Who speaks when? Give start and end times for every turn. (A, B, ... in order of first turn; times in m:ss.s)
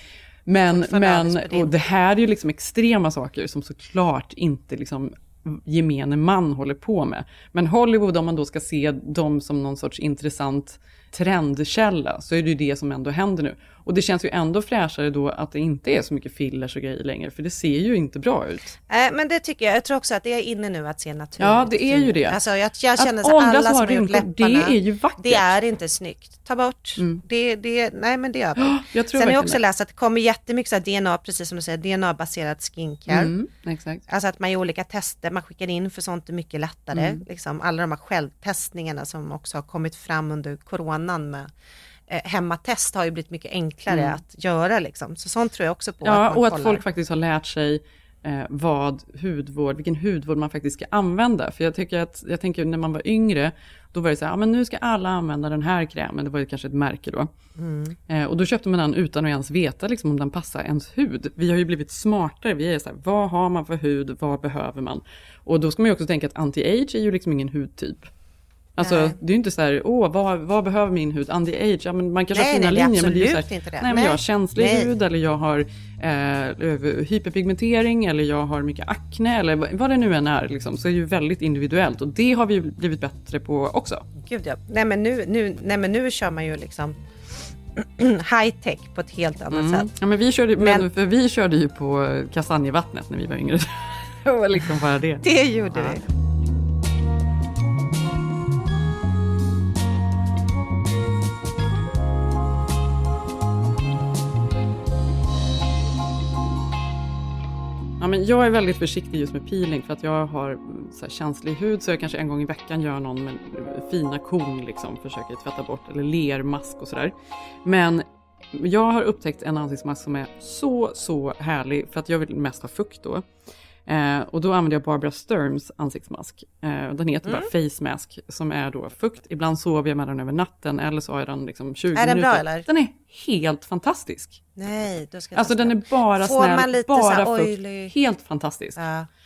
0:00.4-0:18.7 A
0:00.7-0:01.7 B
0:18.9-0:33.3 B
0:21.4-0:22.4 A
0:23.0-0:25.5 A
0:27.0-0:27.2 A
0:28.6-0:29.6 A
0:33.1-0:34.0 A
0:34.1-0:41.5 B
0:36.9-0:37.2 A
0:42.1-0:46.8 B
0:43.9-0:44.2 A
0:46.0-0:57.3 A
0:57.6-0:58.0 B
0:58.1-1:08.1 A
1:08.8-1:24.0 A
1:08.8-1:09.2 B
1:12.3-1:14.9 B
1:24.2-1:27.0 B
1:27.8-1:29.9 B
1:29.5-1:36.0 A
1:30.6-1:30.9 B
1:35.2-1:36.0 B
1:48.0-2:03.2 A
2:03.8-2:14.4 A
2:11.9-2:12.6 B
2:14.6-2:17.9 B
2:15.3-2:18.8 A
2:18.8-2:19.1 B